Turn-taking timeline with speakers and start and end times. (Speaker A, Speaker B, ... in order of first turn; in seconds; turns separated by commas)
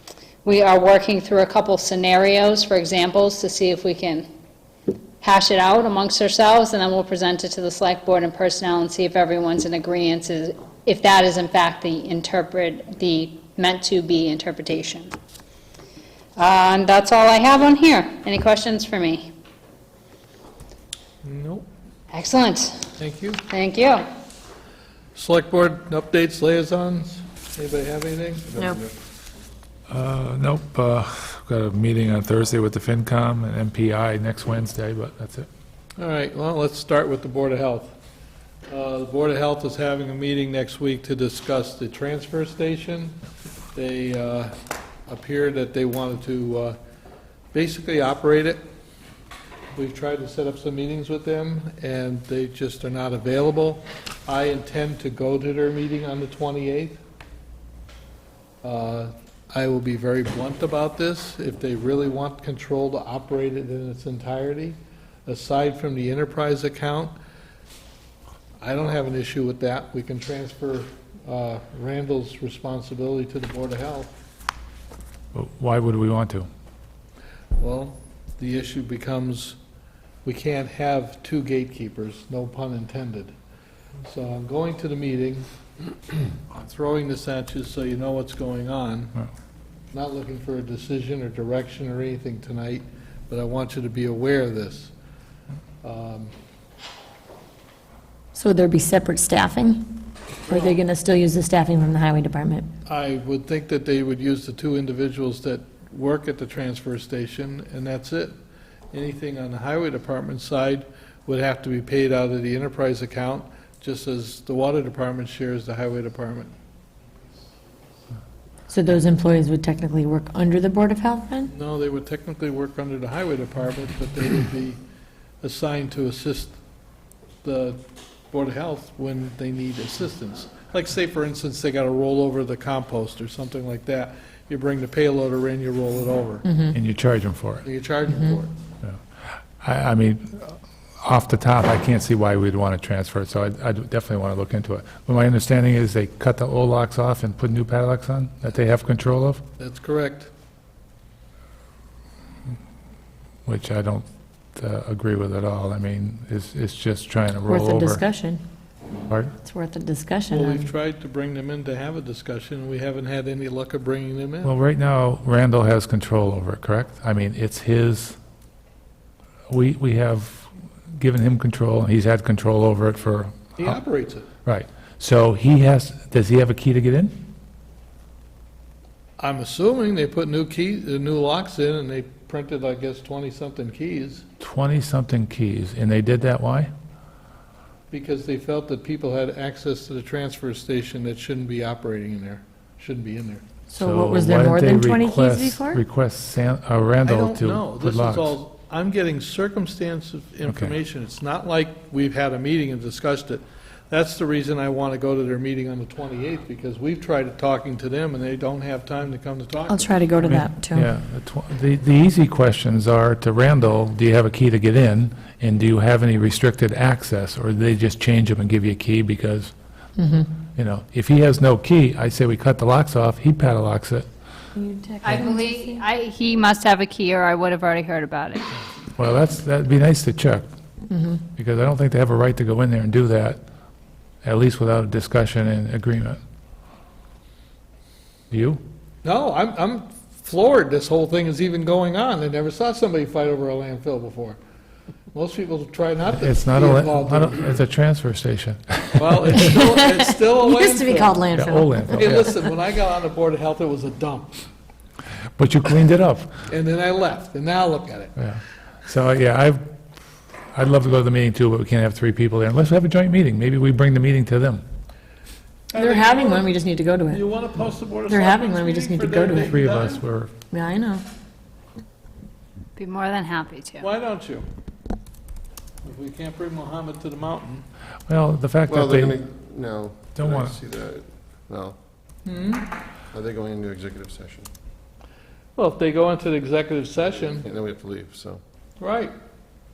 Speaker A: 0.4-4.2, Speaker A: 5.2-15.1, Speaker A: 16.4-19.3, Speaker B: 21.2-21.6, Speaker A: 22.1-22.9, Speaker B: 23.0-23.4, Speaker A: 23.5-24.0, Speaker B: 25.1-28.5, Speaker C: 28.5-28.9, Speaker D: 29.9-35.5, Speaker B: 36.0-37.9, Speaker B: 38.7-43.2, Speaker B: 43.7-44.5, Speaker B: 45.1-46.8, Speaker B: 47.5-48.6, Speaker B: 49.7-57.0, Speaker B: 58.6-67.1, Speaker B: 68.6-74.1, Speaker D: 75.3-76.5, Speaker B: 77.6-79.6, Speaker B: 80.2-83.3, Speaker B: 84.0-85.5, Speaker B: 86.5-89.2, Speaker B: 89.9-94.9, Speaker B: 95.8-96.3, Speaker E: 98.3-102.7, Speaker B: 100.5-100.8, Speaker B: 102.8-108.3, Speaker B: 108.9-116.5, Speaker E: 118.7-121.5, Speaker B: 121.5-124.8, Speaker B: 125.4-126.6, Speaker B: 127.4-127.8, Speaker B: 128.3-136.5, Speaker E: 136.4-136.8, Speaker D: 136.7-137.7, Speaker B: 137.6-138.5, Speaker E: 138.1-138.4, Speaker D: 139.6-149.4, Speaker B: 149.6-150.3, Speaker D: 153.4-158.0, Speaker E: 157.5-158.4, Speaker E: 159.3-160.7, Speaker B: 160.3-164.5, Speaker D: 164.4-168.2, Speaker D: 169.5-173.8, Speaker B: 173.6-174.3, Speaker D: 174.4-177.2, Speaker B: 179.2-184.2, Speaker D: 184.4-186.7, Speaker B: 187.9-193.4, Speaker E: 193.7-195.8, Speaker D: 193.7-198.4, Speaker B: 197.0-210.0, Speaker D: 200.5-200.7, Speaker E: 209.7-210.9, Speaker D: 210.2-219.5, Speaker E: 220.0-220.3, Speaker D: 220.5-224.1, Speaker E: 224.5-225.8, Speaker A: 225.0-228.5, Speaker D: 228.9-230.4, Speaker E: 230.9-231.2, Speaker D: 231.3-233.4, Speaker D: 234.2-236.2, Speaker D: 238.3-238.6, Speaker B: 239.0-244.4, Speaker B: 245.1-247.6, Speaker D: 246.1-249.5, Speaker B: 248.9-251.3, Speaker E: 249.3-252.4, Speaker D: 251.3-252.3, Speaker B: 251.9-254.4, Speaker D: 255.4-256.4, Speaker B: 256.5-258.2, Speaker D: 258.2-259.6, Speaker D: 260.5-264.6, Speaker B: 265.7-266.5, Speaker E: 265.7-267.2, Speaker B: 267.1-270.0, Speaker E: 268.1-269.7, Speaker D: 269.5-270.3, Speaker E: 270.5-271.0, Speaker A: 272.7-273.9, Speaker B: 273.8-274.4, Speaker B: 275.8-277.6, Speaker D: 278.1-279.2, Speaker C: 278.7-281.8, Speaker D: 280.1-280.5, Speaker B: 282.2-282.7, Speaker C: 283.1-284.5, Speaker B: 285.6-287.4, Speaker C: 287.1-288.4, Speaker B: 288.8-289.1